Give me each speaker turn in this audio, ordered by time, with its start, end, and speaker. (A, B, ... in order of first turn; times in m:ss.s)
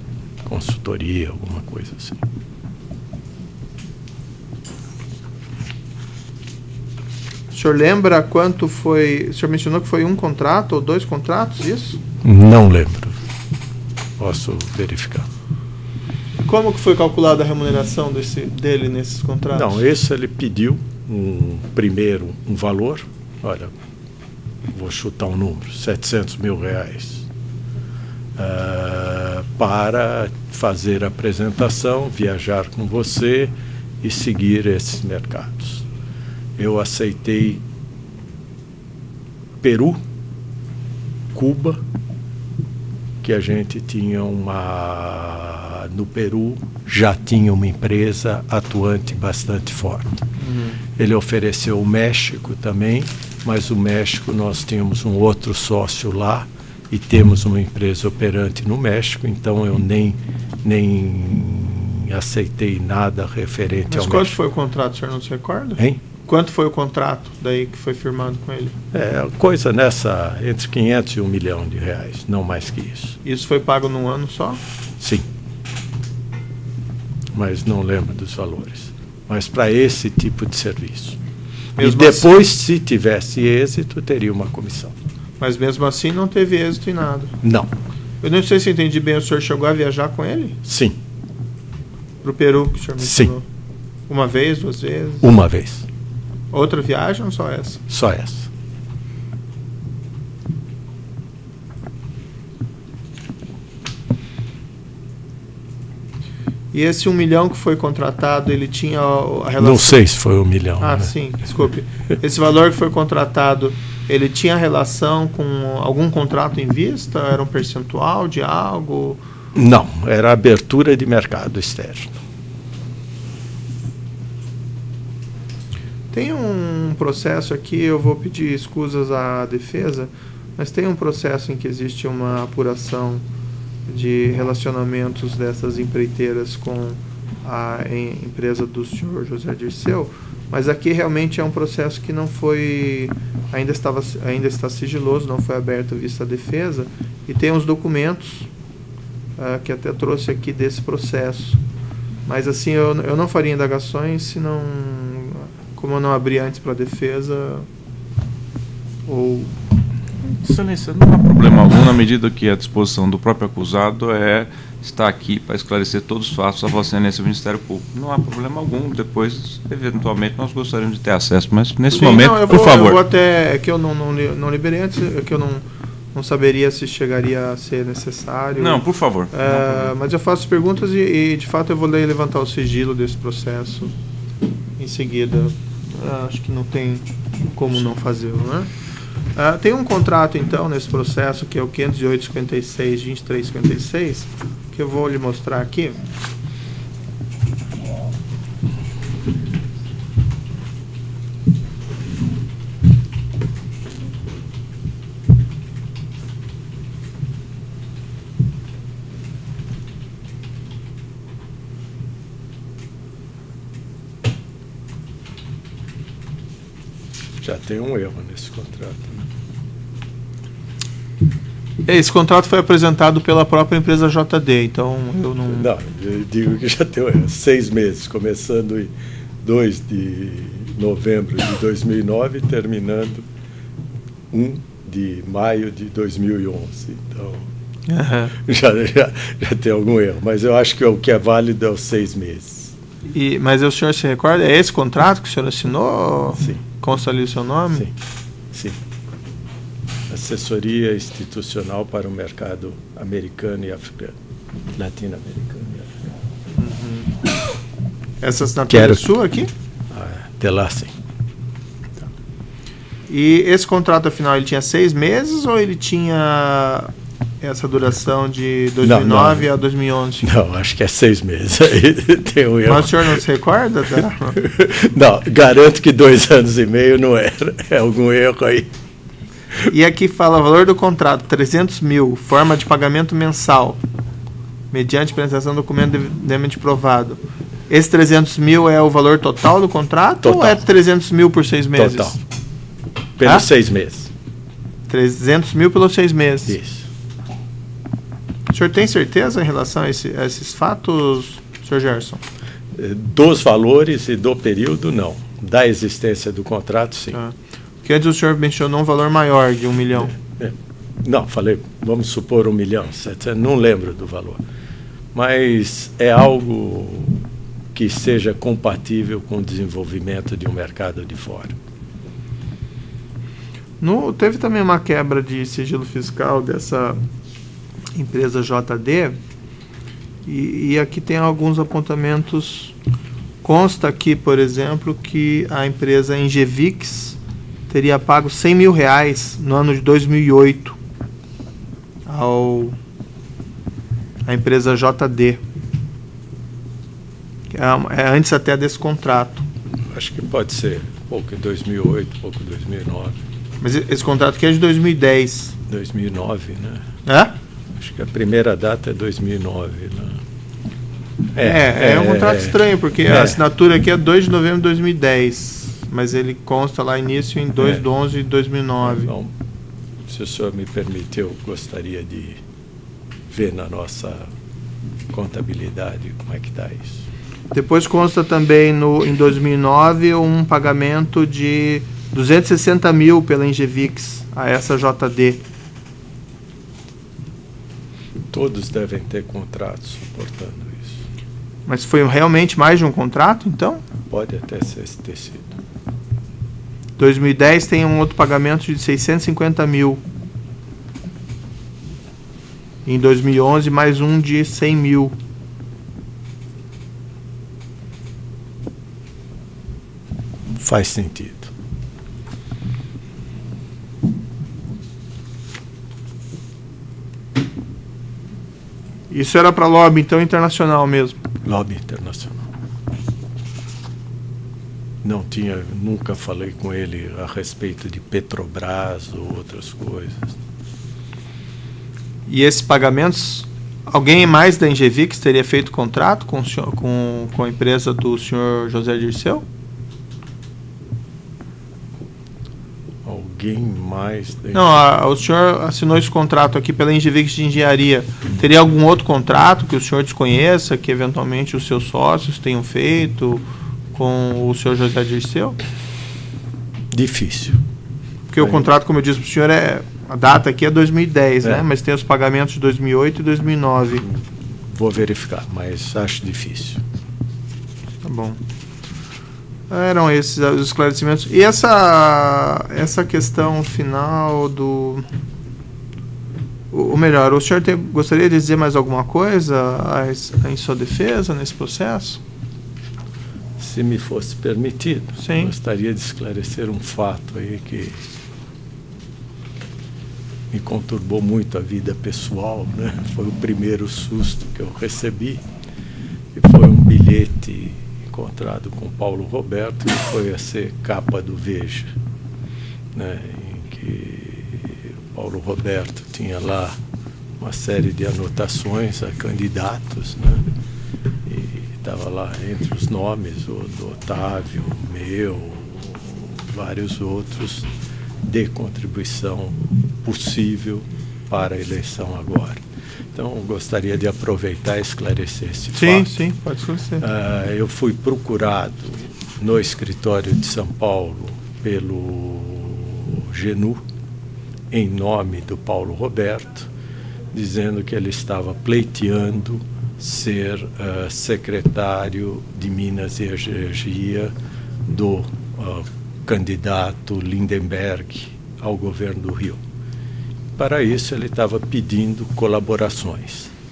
0:00.4-0:02.2 A
0:07.5-0:12.0 B
0:12.2-0:13.2 A
0:14.2-0:15.3 A
0:16.4-0:19.8 B
0:19.5-0:23.7 A
0:24.7-0:27.3 A
0:28.4-0:35.8 A
0:36.6-0:37.6 A
0:39.6-0:40.0 A
0:41.3-0:41.8 A
0:43.2-0:50.2 A
0:50.4-0:50.8 B
0:51.0-1:04.4 A
1:03.9-1:08.8 B
1:08.9-1:13.2 A
1:13.2-1:14.6 B
1:15.0-1:15.3 A
1:17.3-1:21.2 A
1:21.8-1:22.3 B
1:21.8-1:25.0 A
1:25.4-1:27.4 B
1:27.4-1:27.7 A
1:28.2-1:30.6 B
1:30.6-1:31.0 A
1:32.2-1:33.4 B
1:33.0-1:33.3 A
1:34.1-1:35.3 B
1:35.2-1:35.9 A
1:36.5-1:37.8 B
1:37.9-1:38.5 A
1:46.7-1:50.0 B
1:49.6-1:51.1 A
1:50.8-1:59.2 B
1:59.6-2:02.2 A
2:06.1-2:13.2 B
2:13.9-2:28.5 B
2:29.4-2:31.6 B
2:32.3-2:37.7 B
2:39.1-2:39.5 B
2:40.4-2:53.0 C
2:51.9-3:03.9 B
2:58.6-2:59.9 C
3:04.8-3:08.7 B
3:09.4-3:16.0 B
3:37.4-3:39.3 A
3:41.8-3:45.7 B
3:45.5-3:48.9 A
3:49.4-3:53.3 A
3:54.3-3:57.4 A
3:57.9-3:58.4 B
3:58.4-4:02.7 A
4:03.1-4:07.9 B
4:08.5-4:08.8 A
4:10.1-4:14.2 A
4:14.8-4:16.1 A
4:16.6-4:17.1 B
4:18.2-4:19.5 B
4:18.7-4:19.1 A
4:19.9-4:20.9 A
4:23.1-4:30.3 B
4:28.8-4:29.5 A
4:30.2-4:33.2 A
4:32.7-4:34.4 B
4:34.4-4:38.7 A
4:39.7-4:43.8 B
4:44.7-4:52.2 B
4:50.2-4:50.6 A
4:51.8-4:52.2 A
4:53.2-4:54.1 A
4:54.9-4:56.6 B
4:56.5-4:56.9 A
4:58.5-5:02.2 B
5:02.7-5:07.2 A
5:07.1-5:10.1 B
5:10.0-5:14.4 A
5:15.1-5:21.6 A
5:23.8-5:27.0 B
5:28.0-5:29.2 B
5:30.3-5:32.8 B
5:33.4-5:37.2 B
5:37.7-5:40.8 B
5:42.1-5:42.8 B
5:44.3-5:45.4 B
5:47.5-5:49.4 B
5:49.9-5:53.2 A
5:53.6-5:55.6 B
5:55.7-5:56.8 A
5:57.1-5:57.4 B
5:57.8-6:00.2 A
6:01.4-6:03.4 A
6:01.4-6:09.1 B
6:07.6-6:07.8 A
6:08.8-6:09.3 A
6:10.1-6:12.4 A
6:13.3-6:14.3 A
6:15.1-6:17.1 A
6:17.5-6:25.4 B
6:28.3-6:31.0 A
6:31.7-6:33.8 B
6:34.1-6:35.5 A
6:37.0-6:40.0 B
6:42.9-6:45.1 B
6:50.6-6:51.5 A
6:59.1-7:01.2 B
7:01.4-7:02.4 A
7:05.0-7:10.4 A
7:12.3-7:19.4 B
7:23.0-7:24.8 A
7:24.5-7:35.6 B
7:36.9-7:37.6 A
7:38.3-7:44.1 B
7:38.4-7:38.7 A
7:44.0-7:46.8 A
7:48.0-7:48.4 B
7:49.7-7:55.1 B
7:56.7-8:02.2 B
8:03.6-8:08.0 A
8:05.2-8:05.5 B
8:10.5-8:15.4 A
8:16.4-8:21.9 A
8:22.9-8:26.8 A
8:27.4-8:30.4 A
8:31.2-8:37.7 A
8:38.2-8:42.6 A
8:43.2-8:46.2 A
8:45.7-8:47.0 B
8:47.0-8:53.8 A
8:54.7-8:56.7 A
8:57.3-9:04.3 A
9:04.8-9:09.6 A
9:10.6-9:13.5 A